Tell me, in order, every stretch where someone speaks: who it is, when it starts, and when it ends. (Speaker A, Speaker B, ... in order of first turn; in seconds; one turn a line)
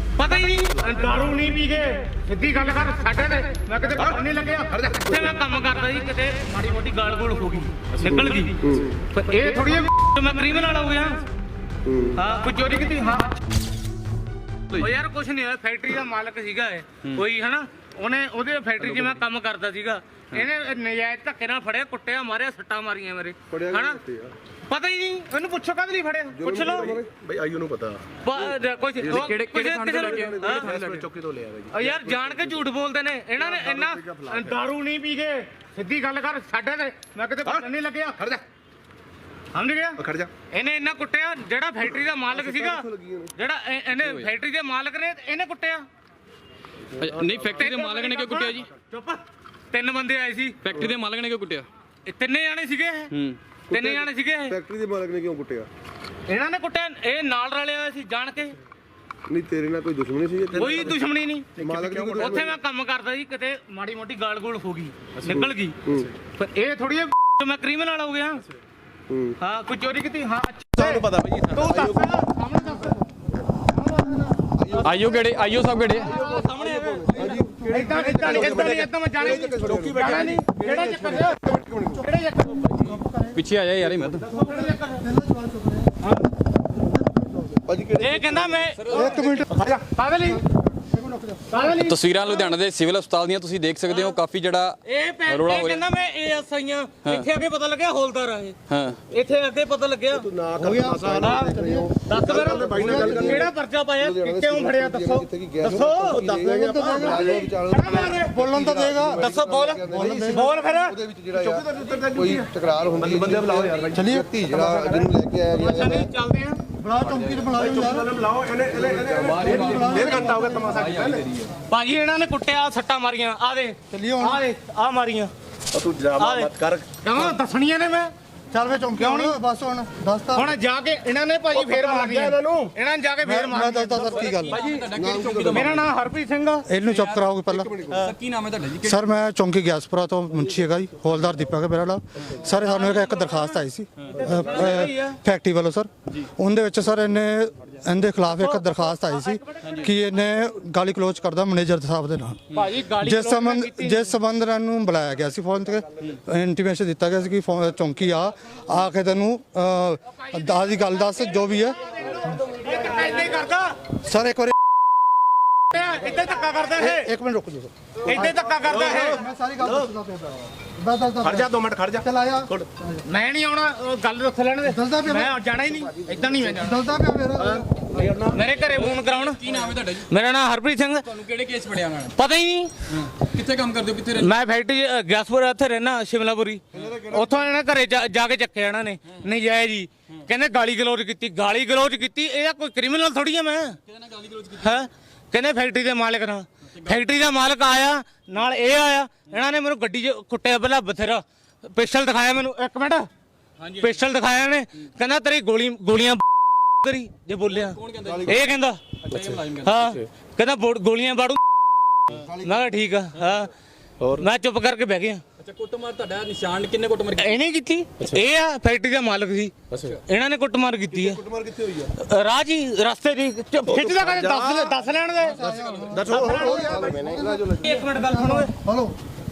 Speaker A: 0.2-11.2
Speaker B: 4.7-5.1
Speaker C: 8.1-8.9
Speaker C: 11.8-12.2
Speaker A: 12.2-13.4
Speaker A: 14.7-24.0
Speaker C: 23.5-24.4
Speaker A: 24.7-27.0
Speaker C: 26.3-27.1
Speaker B: 26.8-28.1
Speaker A: 28.2-30.7
Speaker D: 29.0-31.1
Speaker C: 30.0-30.7
Speaker B: 30.6-32.5
Speaker A: 31.7-38.4
Speaker C: 33.4-34.5
Speaker A: 39.5-40.0
Speaker B: 40.0-40.3
Speaker A: 40.5-45.8
Speaker C: 42.3-43.3
Speaker D: 43.9-44.3
Speaker D: 47.0-48.7
Speaker C: 47.0-47.5
Speaker A: 47.5-50.6
Speaker D: 50.6-51.7
Speaker A: 52.0-53.1
Speaker D: 53.1-53.4
Speaker A: 53.7-54.6
Speaker C: 53.7-55.7
Speaker A: 56.3-58.6
Speaker C: 59.3-60.9
Speaker B: 60.5-61.0
Speaker A: 60.5-61.5
Speaker B: 61.6-62.5
Speaker C: 61.6-62.5
Speaker A: 62.1-68.4
Speaker B: 65.2-65.4
Speaker C: 65.3-66.1
Speaker C: 69.1-69.4
Speaker A: 69.4-73.1
Speaker B: 70.7-71.7
Speaker C: 71.6-72.2
Speaker A: 73.7-74.3
Speaker C: 74.5-75.1
Speaker D: 74.8-76.2
Speaker C: 76.0-82.0
Speaker A: 76.0-83.0
Speaker E: 77.2-78.6
Speaker B: 79.7-80.4
Speaker E: 82.8-83.4
Speaker D: 83.3-84.3
Speaker E: 84.3-86.1
Speaker A: 84.4-85.1
Speaker C: 87.6-88.7
Speaker A: 88.0-89.2
Speaker D: 88.8-89.4
Speaker E: 88.9-89.6
Speaker B: 89.6-89.8
Speaker A: 89.8-90.4
Speaker E: 90.3-91.6
Speaker A: 91.5-92.0
Speaker D: 91.8-95.8
Speaker A: 94.8-100.3
Speaker D: 97.0-97.3
Speaker D: 98.7-99.0
Speaker C: 100.2-116.1
Speaker B: 100.3-101.3
Speaker E: 100.6-101.9
Speaker A: 101.2-108.4
Speaker B: 102.1-103.2
Speaker E: 102.5-103.5
Speaker E: 106.3-107.4
Speaker E: 108.2-109.3
Speaker A: 109.1-111.0
Speaker E: 109.9-110.5
Speaker B: 110.0-110.4
Speaker B: 111.3-114.0
Speaker E: 113.9-115.1
Speaker A: 115.5-116.6
Speaker E: 116.8-118.1
Speaker D: 117.0-117.5
Speaker B: 117.6-121.5
Speaker C: 118.7-120.1
Speaker D: 119.2-121.4
Speaker E: 119.3-120.9
Speaker A: 121.7-125.3
Speaker E: 123.9-124.5
Speaker B: 125.7-127.0
Speaker A: 126.2-128.1
Speaker E: 128.5-130.6
Speaker A: 128.9-129.4
Speaker A: 130.3-134.7
Speaker B: 131.5-132.7
Speaker E: 133.2-134.6
Speaker D: 134.1-135.8
Speaker C: 134.9-135.8
Speaker A: 135.5-136.7
Speaker E: 136.7-137.7
Speaker D: 136.8-137.3
Speaker C: 137.5-138.1
Speaker D: 137.9-139.1
Speaker E: 138.8-152.5
Speaker A: 142.6-143.6
Speaker D: 144.0-144.3
Speaker A: 144.1-145.2
Speaker A: 148.3-149.7
Speaker D: 149.6-149.9
Speaker A: 152.5-154.1
Speaker E: 153.0-162.4
Speaker A: 161.9-163.8
Speaker E: 164.0-164.5
Speaker A: 165.7-167.1
Speaker E: 166.8-173.0
Speaker A: 168.1-169.2
Speaker B: 168.7-169.9
Speaker B: 171.2-172.7
Speaker A: 173.1-176.8
Speaker E: 174.7-175.3
Speaker E: 176.5-178.0
Speaker B: 177.4-178.5
Speaker A: 178.3-179.4
Speaker D: 178.7-180.1
Speaker A: 180.0-181.1
Speaker D: 181.0-182.1
Speaker A: 182.1-182.7
Speaker D: 182.9-184.3
Speaker A: 184.2-193.8
Speaker C: 186.7-187.3
Speaker D: 193.9-194.8
Speaker A: 194.6-203.1
Speaker D: 203.6-204.0
Speaker A: 203.8-206.2
Speaker A: 206.8-208.8
Speaker D: 207.5-208.5
Speaker C: 208.1-208.3
Speaker D: 209.1-210.0
Speaker B: 209.1-209.4
Speaker A: 209.6-211.4
Speaker C: 212.2-212.7
Speaker A: 212.4-213.5
Speaker B: 214.0-214.3
Speaker A: 214.1-215.2
Speaker D: 215.4-217.4
Speaker A: 217.2-221.2
Speaker C: 220.9-221.9
Speaker A: 222.0-225.4
Speaker B: 223.7-224.8
Speaker E: 225.2-229.0
Speaker D: 225.4-226.0
Speaker B: 225.9-226.5
Speaker C: 226.1-227.7
Speaker A: 227.6-228.5